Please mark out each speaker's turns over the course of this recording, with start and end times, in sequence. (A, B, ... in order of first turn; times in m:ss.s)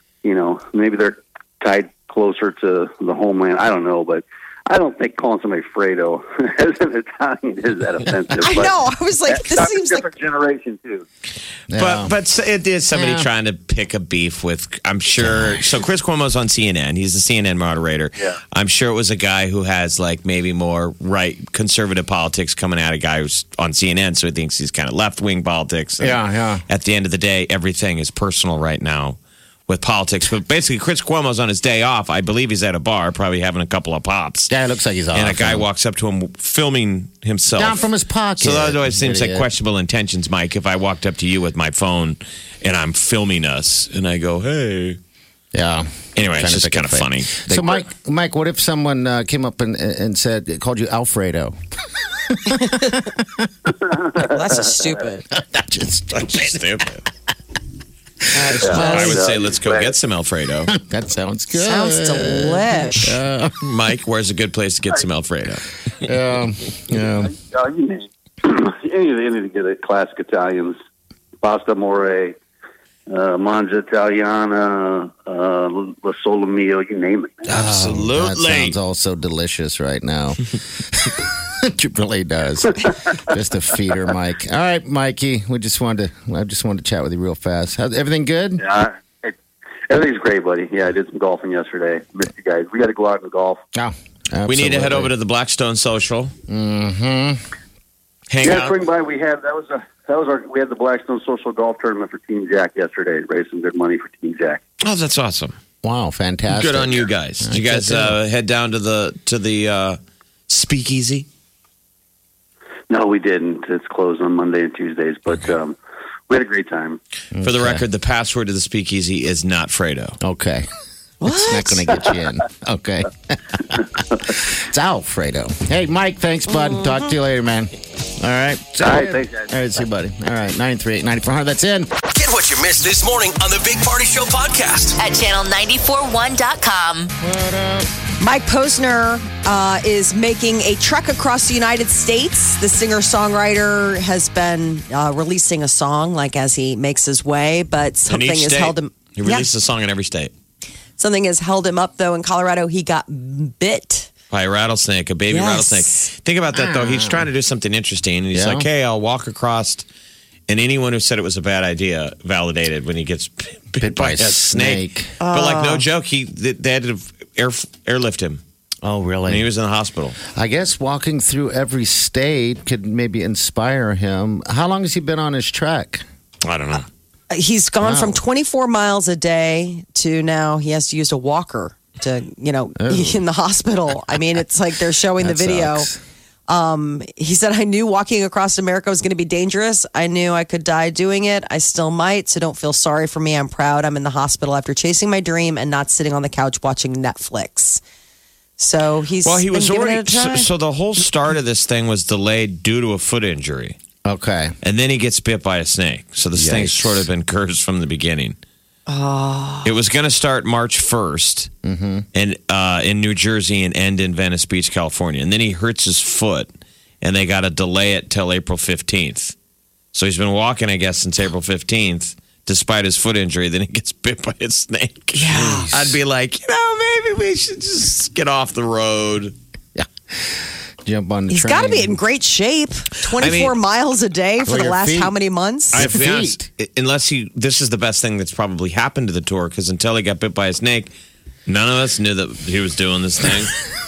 0:00.2-0:08.8 A
0:08.4-0:10.1 B
0:09.3-0:11.1 A
0:11.7-0:12.1 C
0:11.7-0:34.5 D
0:12.9-0:13.3 C
0:15.2-0:15.6 C
0:26.0-0:26.6 C
0:34.5-0:35.7 C
0:35.1-0:37.8 D
0:37.5-0:39.5 C
0:38.4-0:45.0 D
0:45.5-0:51.6 C
0:46.2-0:47.8 D
0:52.1-0:53.5 C
0:52.6-0:53.0 B
0:53.8-0:54.3 A
0:54.2-0:55.2 B
0:55.3-0:56.8 C
0:56.2-0:57.0 D
0:58.3-0:59.2 B
0:58.4-0:59.2 C
0:58.6-0:59.9 A
0:58.7-1:00.7 D
1:00.7-1:03.6 C
1:01.5-1:03.2 B
1:03.6-1:05.7 D
1:06.0-1:07.3 C
1:07.0-1:10.8 A
1:11.4-1:12.4 A
1:13.1-1:17.4 A
1:17.5-1:28.6 C
1:17.5-1:18.8 D
1:28.6-1:29.4 A
1:29.9-1:33.6 A
1:33.7-1:35.1 C
1:34.5-1:36.3 D
1:36.5-1:37.4 C
1:38.3-1:38.8 D
1:38.4-1:44.6 A
1:44.8-1:45.6 D
1:45.8-1:48.2 C
1:46.5-1:50.0 D
1:50.5-1:51.3 D
1:52.9-1:55.8 A
1:56.3-1:57.0 A
1:57.3-1:57.8 C
1:57.4-2:00.2 D
2:00.2-2:00.7 C
2:01.2-2:01.9 B
2:01.2-2:11.9 C
2:06.5-2:07.0 B
2:08.8-2:09.5 A
2:12.0-2:15.0 E
2:15.0-2:17.1 F
2:17.2-2:17.9 C
2:18.2-2:29.5 B
2:28.1-2:30.3 D
2:31.0-2:34.1 B
2:34.3-2:39.9 D
2:35.3-2:36.1 B
2:36.5-2:37.3 C
2:38.3-2:38.7 C
2:40.5-2:48.4 D
2:43.8-2:45.1 C
2:45.2-2:45.9 B
2:48.8-2:49.5 C
2:49.3-2:50.2 D
2:50.3-2:56.0 C
2:56.4-2:56.9 D
2:57.3-3:05.9 B
2:57.8-2:58.2 C
3:02.8-3:03.2 C
3:05.2-3:06.0 C
3:06.5-3:17.8 B
3:18.6-3:20.5 B
3:19.2-3:23.8 D
3:24.0-3:24.6 C
3:24.6-3:28.4 D
3:26.4-3:27.1 C
3:28.9-3:29.7 B
3:29.6-3:31.5 D
3:31.6-3:32.1 C
3:32.1-3:36.5 D
3:37.0-3:39.4 D
3:39.9-3:49.4 D
3:45.1-3:45.7 B
3:49.8-3:52.0 C
3:51.3-3:55.8 B
3:53.2-3:53.6 D
3:54.4-3:55.2 C
3:55.7-4:00.9 D
3:55.7-3:56.5 C
4:01.5-4:03.6 D